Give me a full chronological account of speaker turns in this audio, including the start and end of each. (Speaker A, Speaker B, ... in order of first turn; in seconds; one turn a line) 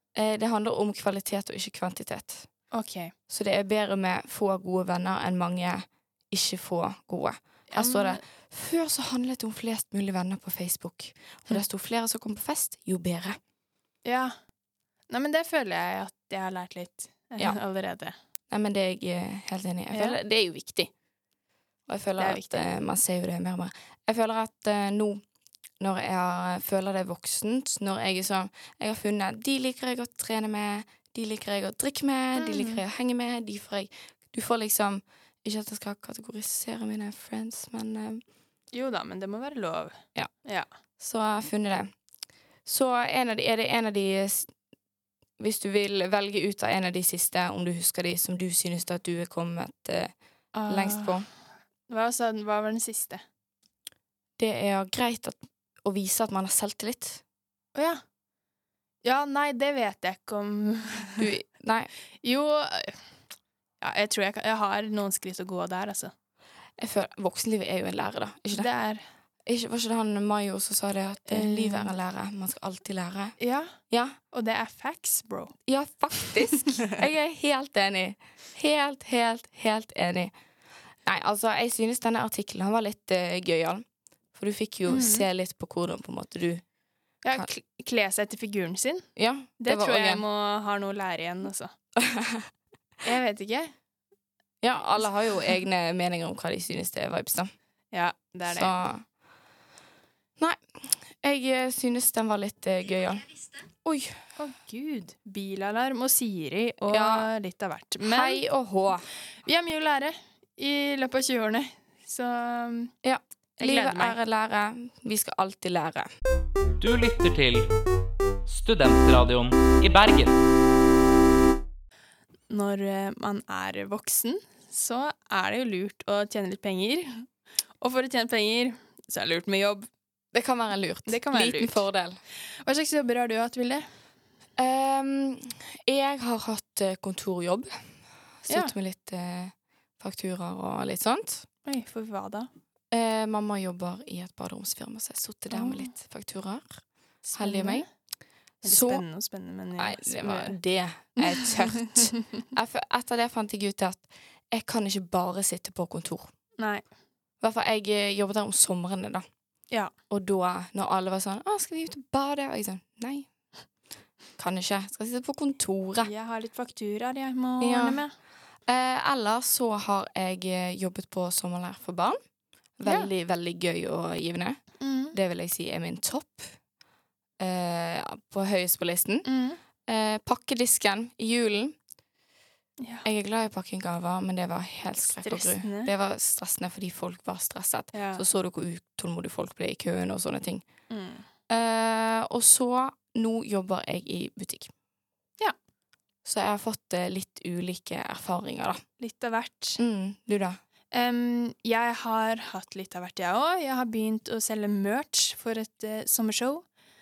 Speaker A: 0.2-2.5
Speaker B: 2.7-3.1
Speaker A: 3.3-13.4
Speaker B: 7.7-8.2
Speaker B: 14.0-14.3
Speaker B: 15.1-18.1
Speaker A: 18.5-20.9
Speaker B: 19.9-20.2
Speaker A: 21.9-25.2
Speaker B: 22.2-22.7
Speaker A: 25.8-38.2
Speaker B: 32.4-32.8
Speaker B: 38.7-40.7
Speaker A: 41.0-41.9
Speaker A: 42.6-44.5
Speaker A: 45.4-50.1
Speaker B: 50.5-51.2
Speaker A: 50.7-51.3
Speaker B: 51.9-53.2
Speaker A: 54.4-57.2
Speaker B: 57.8-58.0
Speaker B: 59.0-61.3
Speaker A: 61.2-61.9
Speaker B: 62.2-63.0
Speaker B: 63.8-66.1
Speaker A: 66.8-68.7
Speaker B: 68.5-69.0
Speaker A: 69.5-73.3
Speaker B: 71.3-71.9
Speaker B: 73.4-73.8
Speaker A: 73.9-74.2
Speaker B: 74.3-75.5
Speaker A: 75.7-80.3
Speaker A: 81.1-83.8
Speaker A: 84.3-86.6
Speaker B: 84.9-85.3
Speaker B: 87.2-89.1
Speaker A: 89.2-90.2
Speaker B: 89.6-91.7
Speaker A: 92.0-92.5
Speaker B: 93.0-93.7
Speaker A: 94.6-97.5
Speaker B: 97.9-98.7
Speaker A: 98.5-99.0
Speaker A: 100.4-103.3
Speaker A: 103.8-104.2
Speaker B: 104.4-108.4
Speaker A: 106.9-107.3
Speaker A: 108.0-109.1
Speaker B: 109.4-112.9
Speaker A: 113.0-116.1
Speaker B: 113.6-114.2
Speaker C: 116.8-117.7
Speaker C: 118.5-120.4
Speaker B: 122.5-127.3
Speaker B: 127.8-129.9
Speaker A: 130.3-132.2
Speaker B: 131.1-131.8
Speaker B: 132.6-133.9
Speaker A: 134.6-137.7
Speaker A: 138.4-141.5
Speaker B: 138.5-138.7
Speaker B: 141.7-142.5
Speaker A: 142.9-146.8
Speaker B: 145.5-145.9
Speaker B: 147.2-147.9
Speaker A: 147.4-147.9
Speaker B: 148.6-150.6
Speaker A: 148.7-149.0
Speaker A: 149.8-156.3
Speaker B: 151.2-152.2
Speaker B: 156.6-156.8
Speaker A: 157.4-159.3
Speaker A: 160.1-163.3
Speaker A: 164.4-166.1
Speaker B: 166.0-168.1
Speaker A: 167.6-168.0
Speaker A: 168.7-172.2
Speaker A: 172.8-174.6
Speaker B: 172.8-173.1
Speaker B: 174.8-175.2
Speaker A: 175.1-176.5
Speaker A: 177.4-179.3
Speaker B: 179.2-179.6
Speaker A: 179.9-181.8
Speaker B: 182.8-183.1
Speaker A: 183.1-190.6
Speaker B: 185.2-185.9
Speaker B: 187.9-188.2
Speaker B: 190.9-191.2
Speaker A: 191.5-194.7
Speaker A: 196.2-198.8
Speaker B: 199.0-199.8
Speaker A: 199.8-200.6
Speaker B: 200.9-206.7